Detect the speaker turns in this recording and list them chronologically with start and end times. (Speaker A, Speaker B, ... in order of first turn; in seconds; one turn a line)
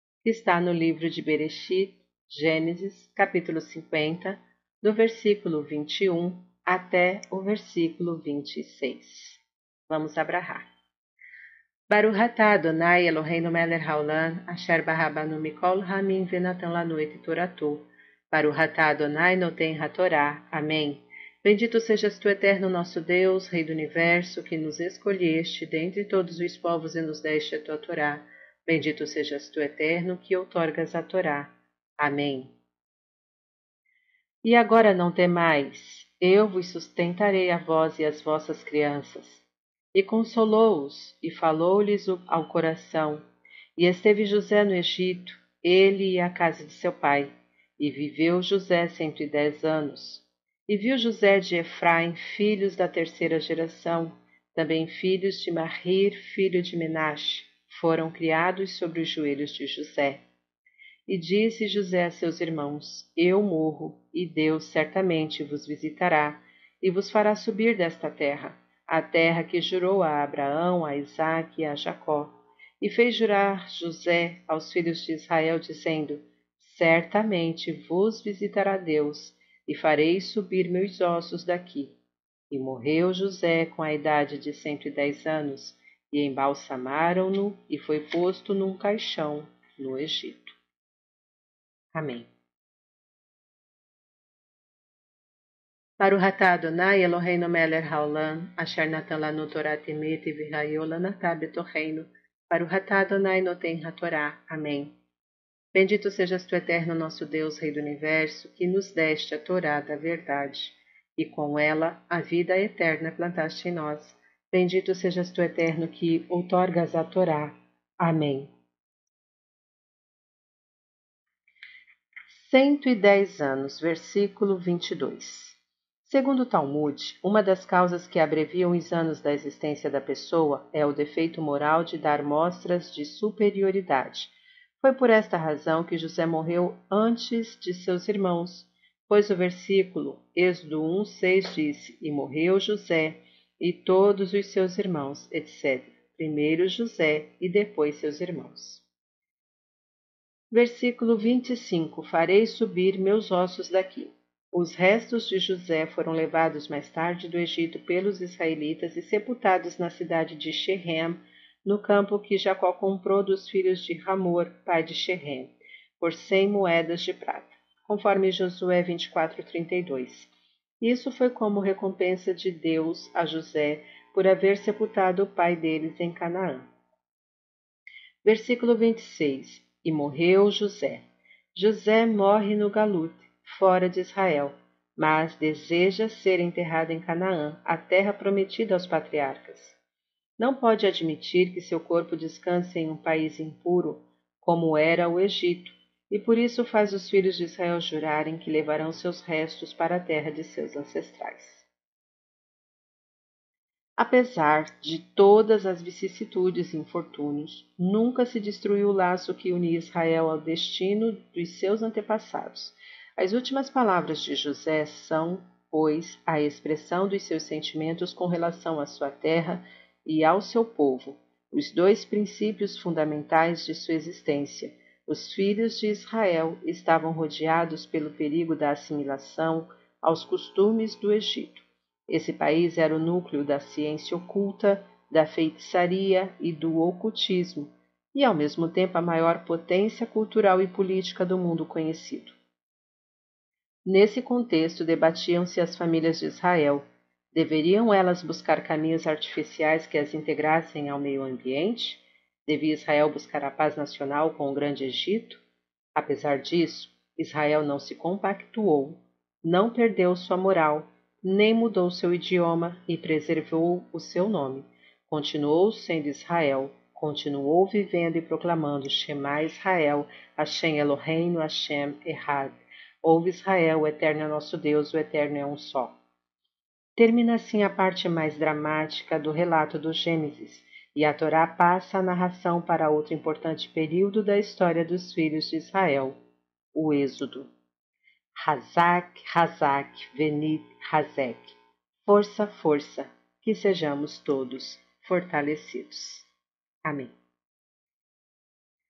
Speaker A: 0.2-10.7
Speaker A: 11.9-32.5
Speaker A: 34.4-43.2
Speaker A: 43.8-60.2
Speaker A: 61.1-82.0
Speaker A: 82.5-90.5
Speaker A: 91.9-92.3
Speaker A: 96.0-104.9
Speaker A: 105.7-118.5
Speaker A: 122.3-148.8
Speaker A: 150.5-176.7
Speaker A: 178.2-189.8
Speaker A: 190.4-201.7
Speaker A: 204.0-242.4
Speaker A: 243.8-255.4
Speaker A: 255.9-275.9
Speaker A: 277.0-286.2
Speaker A: 286.7-287.5
Speaker A: 288.4-296.3
Speaker A: 296.9-297.1